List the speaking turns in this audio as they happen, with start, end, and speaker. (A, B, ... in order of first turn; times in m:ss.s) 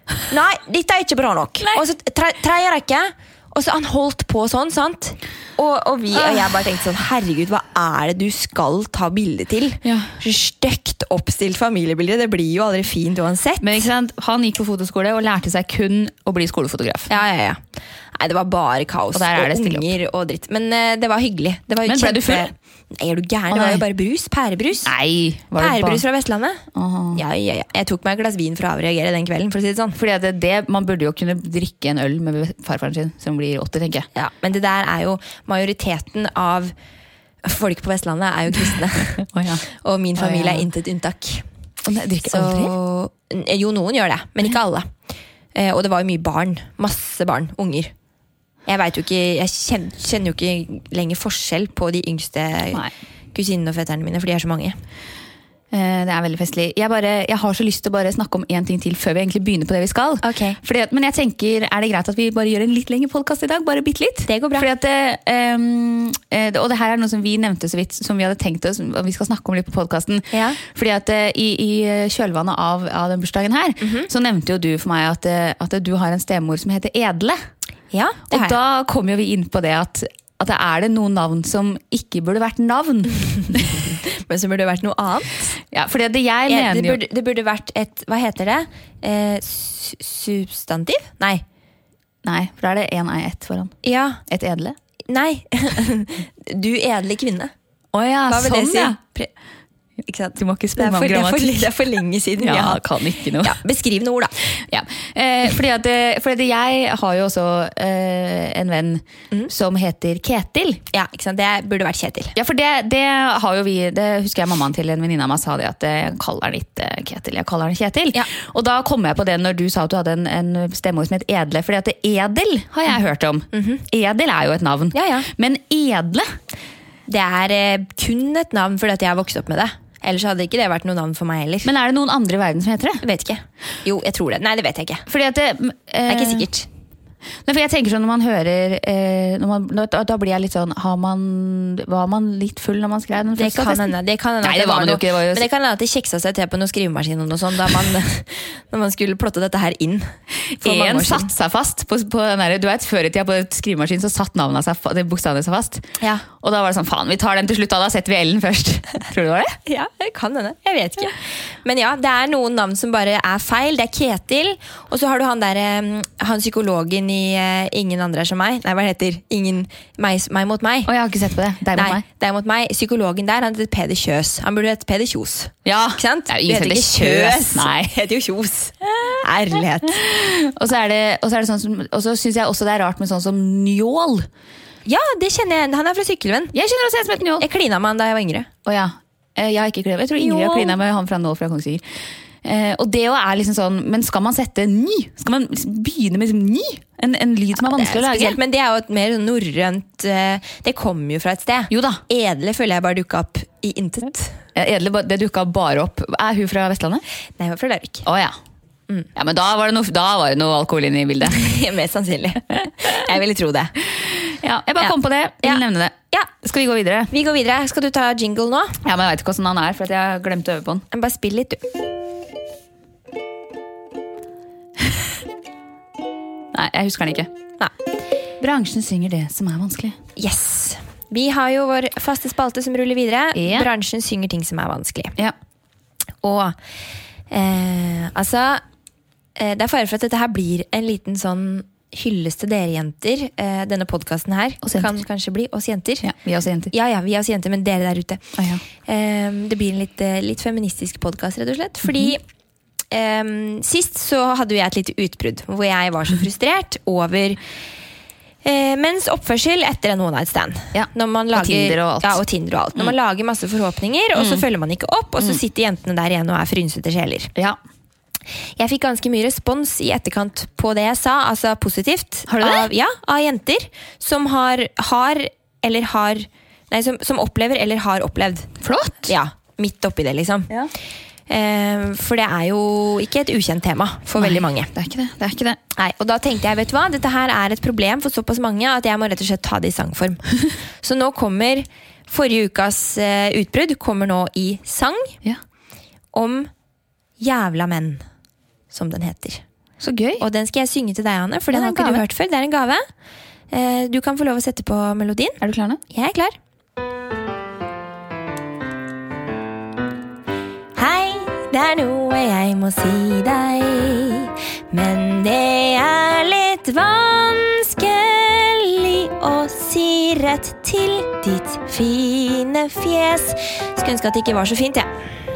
0:00.2-0:13.9 A
0:06.1-0:06.4 B
0:09.8-0:10.1 B
0:13.6-0:17.1 B
0:17.1-0:17.6 A
0:18.1-0:24.9 A
0:19.1-0:19.9 B
0:21.8-0:22.5 B
0:23.5-0:23.8 B
0:24.8-0:26.0 B
0:25.6-0:30.0 A
0:26.7-0:27.2 B
0:30.0-0:34.1 B
0:34.1-0:36.7 A
0:37.4-0:41.4 A
0:39.2-0:39.6 B
0:40.2-0:40.6 B
0:41.8-0:42.7 B
0:42.2-0:44.9 A
0:45.5-0:47.9 A
0:48.6-0:54.8 A
0:55.7-1:17.4 B
1:00.2-1:00.6 A
1:04.3-1:04.7 A
1:10.3-1:10.6 A
1:13.8-1:14.1 A
1:17.9-1:18.6 A
1:18.3-1:23.8 B
1:23.8-1:25.5 A
1:25.7-1:27.0 B
1:26.5-1:31.4 A
1:32.2-1:34.8 B
1:33.8-1:34.2 A
1:35.1-1:37.5 A
1:37.9-1:39.0 B
1:38.3-1:39.3 A
1:40.0-1:44.4 A
1:40.4-1:41.7 B
1:42.4-1:43.6 B
1:44.6-1:50.8 B
1:50.9-1:52.3 A
1:52.4-2:06.3 B
2:03.5-2:03.8 A
2:04.9-2:05.3 A
2:07.1-2:11.7 A
2:11.6-2:13.0 B
2:13.0-2:15.0 A
2:15.1-2:16.5 B
2:16.1-2:16.7 A
2:17.4-2:25.5 B
2:23.4-2:31.3 A
2:30.5-2:39.6 B
2:39.6-2:50.9 A
2:50.8-2:52.0 B
2:51.7-3:00.0 A
2:55.6-2:57.9 B
2:59.8-3:04.3 B
3:04.8-3:06.5 A
3:06.5-3:07.4 B
3:07.4-3:08.5 A
3:08.6-3:11.8 B
3:10.2-3:10.7 A
3:12.4-3:18.4 B
3:17.6-3:24.4 A
3:21.7-3:22.0 B
3:24.5-3:27.0 B
3:27.4-3:28.0 A
3:28.0-3:28.3 B
3:29.1-3:31.5 B
3:31.3-3:33.8 A
3:33.9-3:37.1 B
3:34.8-3:36.3 A
3:37.1-3:38.8 A
3:38.8-3:40.8 B
3:40.9-3:41.6 A
3:46.5-3:47.3 B
3:48.4-3:50.0 B
3:50.2-3:55.1 A
3:53.3-3:53.7 B
3:56.2-3:56.6 A
3:57.3-3:58.6 A
3:59.4-4:06.1 A
4:04.6-4:04.9 B
4:06.0-4:06.7 B
4:06.7-4:12.2 A
4:08.4-4:08.6 B
4:12.9-4:17.4 A
4:18.4-4:27.3 A
4:20.7-4:22.2 B
4:24.2-4:24.4 B
4:28.6-4:38.5 A
4:32.3-4:32.7 B
4:38.6-4:39.1 B
4:39.0-4:40.5 A
4:41.3-4:44.7 A
4:44.2-4:45.6 B
4:45.7-4:50.3 A
4:50.8-4:55.2 A
4:56.1-4:56.5 A
4:57.2-4:58.0 A
4:58.7-4:59.4 A
4:59.8-5:00.2 B
5:00.2-5:02.8 A
5:01.5-5:02.0 B
5:03.5-5:06.4 A
5:05.4-5:05.8 B
5:10.7-5:24.9 A